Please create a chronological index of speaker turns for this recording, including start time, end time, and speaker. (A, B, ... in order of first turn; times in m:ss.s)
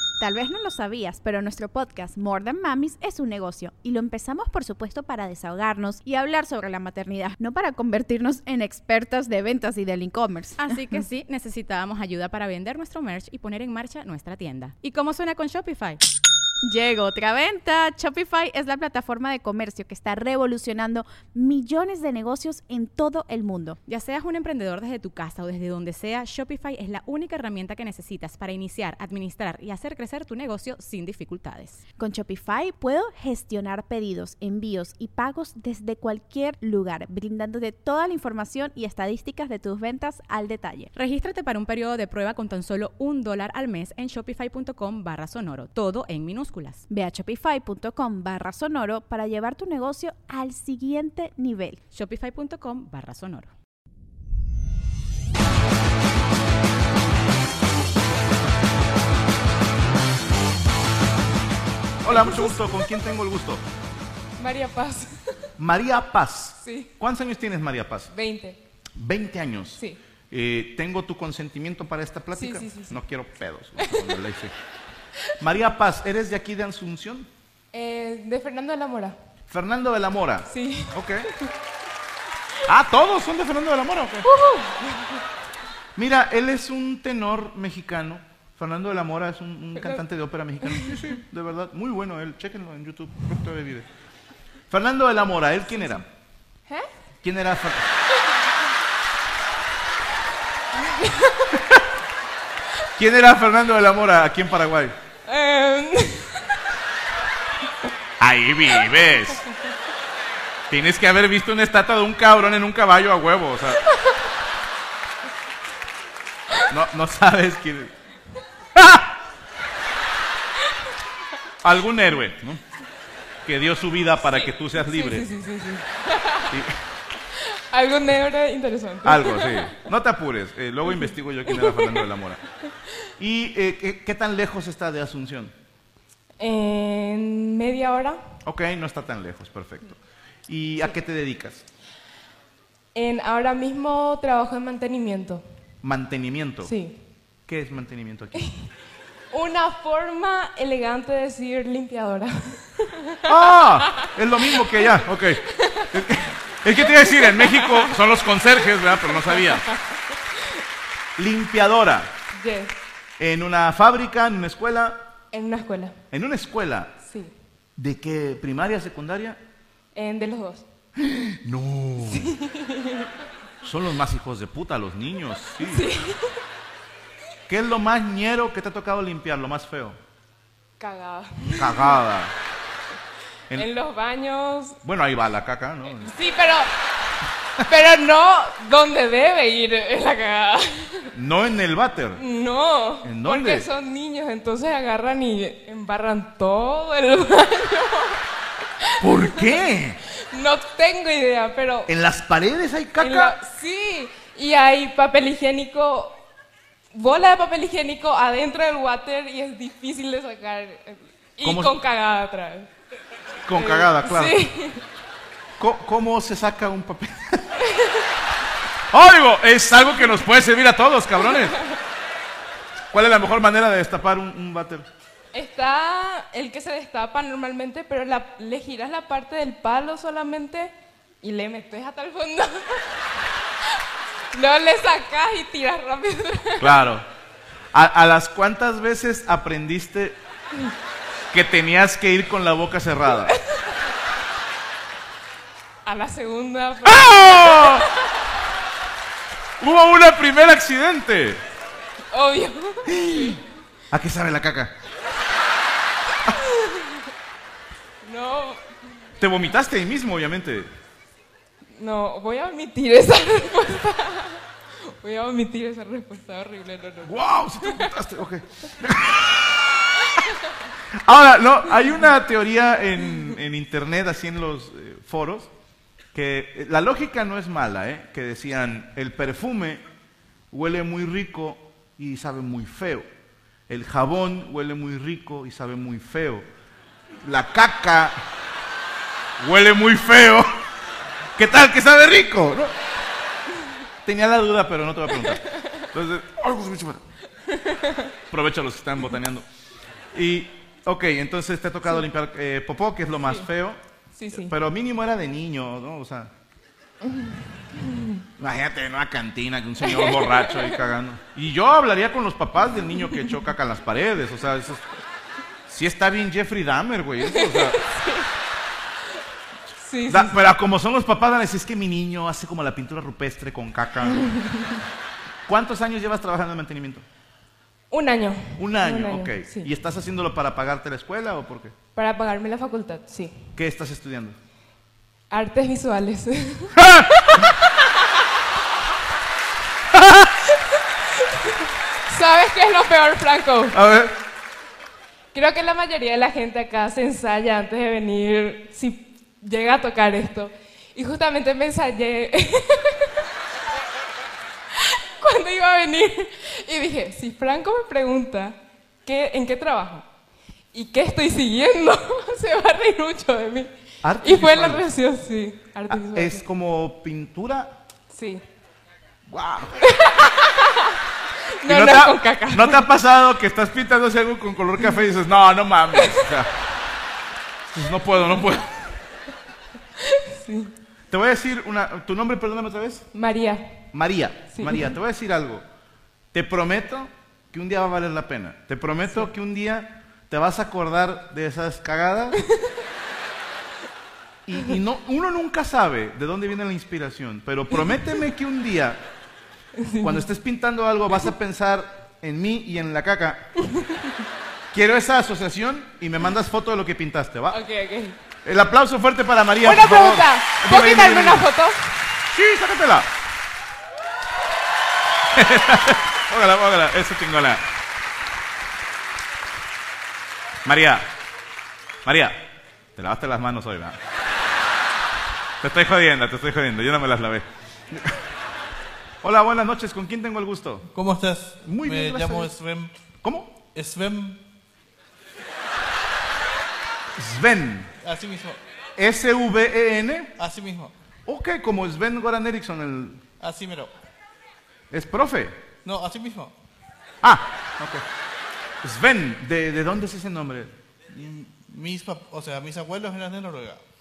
0:00.2-0:11.0 A
0:10.6-0:16.0 B
0:16.6-0:23.8 A
0:23.8-0:31.8 B
0:32.0-0:40.9 A
0:40.9-0:46.8 B
0:46.9-0:51.8 A
0:51.9-0:53.5 B
1:02.0-1:03.6 C
1:02.1-1:02.6 D
1:04.4-1:05.2 D
1:05.6-1:08.1 C
1:06.6-1:06.9 D
1:08.1-1:08.6 D
1:09.0-1:09.8 C
1:10.3-1:14.5 C
1:12.3-1:13.0 D
1:13.8-1:14.1 D
1:15.4-1:17.3 C
1:17.7-1:19.2 D
1:19.5-1:21.3 C
1:20.5-1:21.5 D
1:22.6-1:24.3 C
1:24.3-1:25.2 D
1:26.0-1:33.8 C
1:30.6-1:31.2 D
1:34.7-1:36.1 C
1:37.2-1:37.8 C
1:40.7-1:41.7 D
1:43.0-1:44.9 C
1:45.2-1:46.6 D
1:48.2-1:49.4 C
1:50.7-1:53.8 C
1:56.7-1:57.9 C
1:58.8-1:59.0 C
2:01.6-2:02.6 C
2:03.4-2:05.3 C
2:04.3-2:06.5 D
2:07.3-2:09.7 D
2:09.0-2:12.4 C
2:10.9-2:12.0 D
2:13.2-2:15.5 C
2:16.4-2:18.2 D
2:18.4-2:21.6 C
2:22.9-2:25.4 D
2:25.8-2:26.7 C
2:26.6-2:27.0 D
2:27.5-2:28.5 C
2:29.3-2:33.2 D
2:33.2-2:39.6 C
2:36.9-2:37.9 D
2:41.2-2:42.1 C
2:42.4-2:42.8 D
2:43.2-2:45.0 C
2:45.3-2:46.0 D
2:46.1-2:46.9 C
2:47.0-2:47.3 D
2:47.8-2:49.4 C
2:49.9-2:50.6 D
2:51.0-2:52.3 C
2:52.1-2:53.1 D
2:53.6-2:55.9 C
2:55.6-2:56.3 D
2:57.5-3:00.0 C
3:00.8-3:02.0 D
3:01.6-3:02.3 C
3:03.5-3:04.8 D
3:04.8-3:06.1 C
3:06.0-3:06.7 D
3:07.6-3:11.1 D
3:11.1-3:12.2 C
3:12.2-3:18.2 D
3:13.0-3:13.7 C
3:18.8-3:19.6 D
3:19.0-3:20.0 C
3:20.3-3:21.9 D
3:21.9-3:23.4 C
3:23.0-3:26.2 D
3:26.9-3:32.7 D
3:31.4-3:31.7 C
3:33.4-3:34.4 C
3:33.5-3:34.8 D
3:35.6-3:37.4 C
3:37.7-3:38.0 D
3:38.9-3:41.6 C
3:42.9-3:44.8 C
3:45.3-3:53.0 D
3:54.3-3:56.8 D
3:56.6-3:57.0 C
3:57.7-4:00.2 C
4:01.3-4:03.4 C
4:05.8-4:08.0 D
4:06.8-4:07.8 C
4:09.6-4:11.4 C
4:12.1-4:13.4 D
4:12.9-4:14.7 C
4:16.4-4:16.8 D
4:18.0-4:18.6 D
4:19.2-4:20.7 C
4:21.8-4:27.9 D
4:27.0-4:29.6 C
4:31.0-4:35.5 C
4:36.1-4:39.8 C
4:40.5-4:43.0 C
4:43.7-4:46.4 C
4:47.2-4:48.2 C
4:49.4-4:50.5 C
4:51.4-4:52.7 C
4:54.0-4:57.0 C
4:57.5-4:58.0 D
4:58.3-4:59.4 C
5:00.1-5:03.8 C
5:03.2-5:03.5 D
5:04.2-5:04.5 D
5:04.3-5:06.3 C
5:07.0-5:08.2 D
5:08.4-5:14.8 C
5:09.8-5:10.8 D
5:13.0-5:13.3 D
5:15.7-5:17.8 C
5:17.2-5:18.3 D
5:19.8-5:20.4 D
5:20.1-5:24.3 C
5:24.2-5:24.8 D
5:25.5-5:27.0 C
5:27.9-5:29.7 D
5:28.6-5:31.7 C
5:31.9-5:33.4 D
5:33.5-5:34.4 C
5:35.3-5:36.8 D
5:36.8-5:37.1 C
5:41.2-5:43.8 D
5:43.7-5:44.2 C
5:45.3-5:53.2 D
5:54.8-6:00.1 D
6:00.7-6:06.4 D
6:04.0-6:04.8 C
6:05.9-6:07.8 C
6:08.1-6:08.4 D
6:09.3-6:09.8 C
6:09.8-6:11.0 D
6:11.6-6:12.8 D
6:11.7-6:16.5 C
6:15.9-6:16.3 D
6:17.7-6:18.7 C
6:20.1-6:20.7 D
6:21.1-6:23.1 C
6:23.1-6:23.8 D
6:23.9-6:25.6 C
6:24.5-6:24.9 D
6:26.3-6:32.4 C
6:34.4-6:39.0 C
6:39.8-6:40.2 D
6:40.0-6:43.5 C
6:43.7-6:44.1 D
6:44.7-6:47.6 C
6:47.5-6:48.2 D
6:48.4-6:51.4 C
6:49.6-6:51.9 D
6:52.3-6:53.1 C
6:55.3-6:57.6 C
7:00.6-7:01.1 C
7:02.0-7:02.4 C
7:03.0-7:04.0 C
7:05.6-7:08.1 C
7:09.2-7:10.8 C
7:10.9-7:12.9 E
7:11.6-7:12.5 C
7:13.2-7:13.6 C
7:13.6-7:14.4 E
7:17.2-7:17.9 C
7:18.0-7:18.6 E
7:19.0-7:20.3 C
7:20.4-7:20.9 E
7:21.2-7:23.2 C
7:23.4-7:23.9 E
7:24.9-7:25.6 C
7:25.8-7:26.5 E
7:27.2-7:28.0 C
7:28.8-7:30.7 C
7:31.1-7:33.8 E